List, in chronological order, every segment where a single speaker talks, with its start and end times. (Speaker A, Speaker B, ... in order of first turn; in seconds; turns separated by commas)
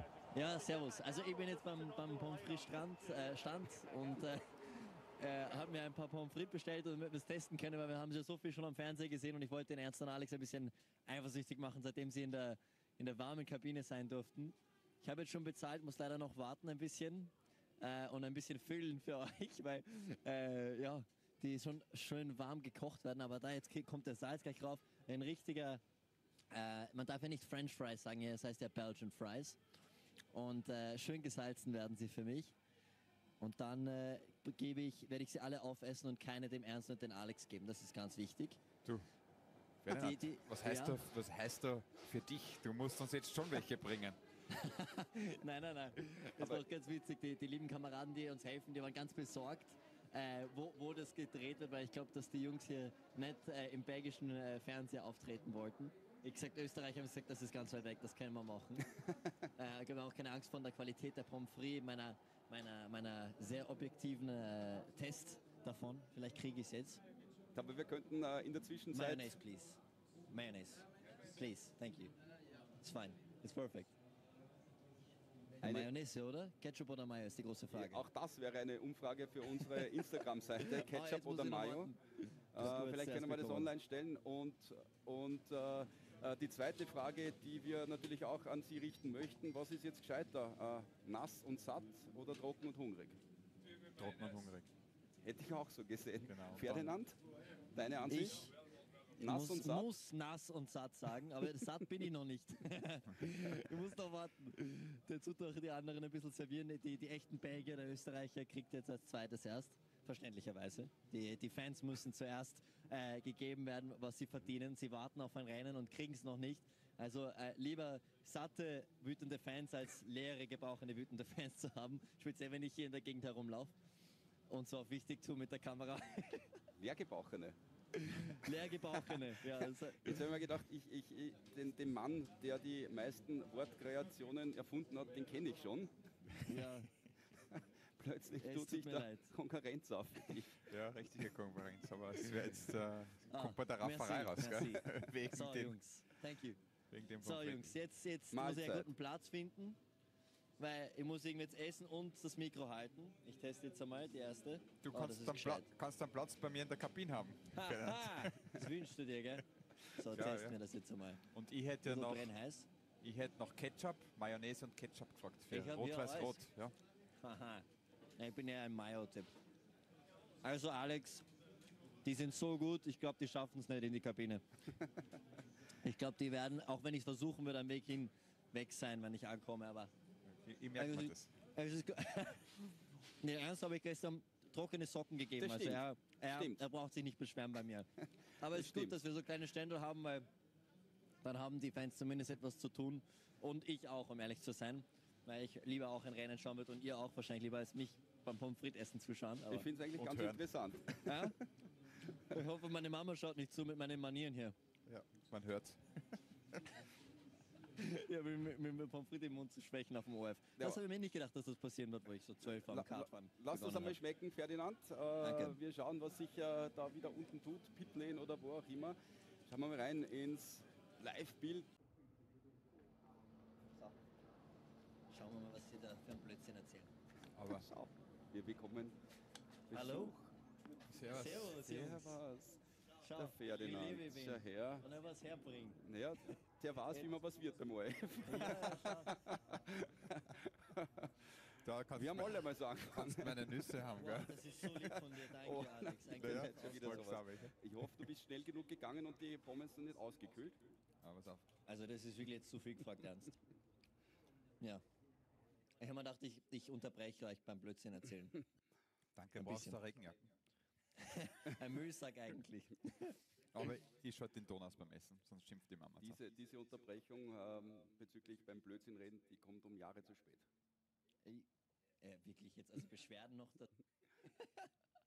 Speaker A: 0.3-25.8, Speaker A: 26.5-29.6, Speaker A: 30.3-32.5, Speaker A: 33.4-38.6, Speaker B: 39.8-44.2, Speaker A: 39.9-41.0, Speaker A: 44.5-59.0, Speaker C: 46.4-46.6, Speaker A: 59.5-67.0, Speaker C: 67.5-69.3, Speaker A: 68.9-72.1, Speaker A: 72.8-73.9, Speaker C: 75.6-75.9, Speaker A: 75.6-78.0, Speaker C: 77.7-81.9, Speaker A: 79.6-79.8, Speaker A: 80.6-83.7, Speaker C: 82.5-93.2, Speaker B: 94.0-94.7, Speaker C: 95.2-97.2, Speaker B: 96.2-96.9, Speaker C: 97.7-98.5, Speaker A: 98.1-98.5, Speaker C: 99.2-99.9, Speaker A: 99.2-123.7, Speaker A: 124.5-126.6, Speaker C: 126.8-127.6, Speaker A: 127.9-130.2, Speaker C: 128.8-135.9, Speaker A: 136.4-136.9, Speaker C: 137.4-141.3, Speaker A: 138.4-139.3, Speaker B: 140.6-145.8, Speaker A: 143.3-146.6, Speaker B: 146.9-147.7, Speaker A: 147.2-149.8, Speaker C: 148.3-148.9, Speaker A: 150.6-155.7, Speaker B: 154.8-158.6, Speaker A: 157.5-161.3, Speaker B: 159.8-160.6, Speaker B: 161.3-162.3, Speaker A: 161.8-162.7, Speaker B: 163.0-166.7, Speaker A: 165.5-166.4, Speaker A: 167.2-167.7, Speaker A: 168.2-169.3, Speaker A: 170.4-171.2, Speaker A: 172.0-174.4, Speaker A: 175.8-179.9, Speaker B: 180.2-181.3, Speaker A: 180.8-190.3, Speaker C: 185.4-186.6, Speaker C: 188.4-189.0, Speaker A: 191.2-199.7, Speaker C: 199.5-201.3, Speaker B: 199.9-200.4, Speaker A: 201.0-201.3, Speaker A: 202.1-204.5, Speaker B: 204.8-206.6, Speaker A: 207.7-214.0, Speaker C: 212.5-221.7, Speaker A: 215.2-215.6, Speaker A: 225.1-226.9, Speaker B: 227.3-227.7, Speaker C: 227.5-228.9, Speaker C: 229.7-230.3, Speaker A: 229.7-230.2, Speaker B: 230.9-231.5, Speaker A: 231.0-232.2, Speaker C: 231.3-234.8, Speaker A: 233.0-235.8, Speaker C: 235.8-241.3, Speaker A: 238.2-239.2, Speaker B: 241.6-244.4, Speaker C: 241.9-243.7, Speaker A: 243.9-247.1, Speaker C: 244.6-250.6, Speaker B: 246.1-248.1, Speaker B: 251.0-251.4, Speaker A: 251.7-253.4, Speaker A: 255.8-258.4, Speaker B: 259.1-260.3, Speaker A: 259.3-259.8, Speaker A: 260.9-263.2, Speaker B: 263.5-266.2, Speaker C: 266.0-270.5, Speaker A: 272.0-273.7, Speaker A: 274.2-274.7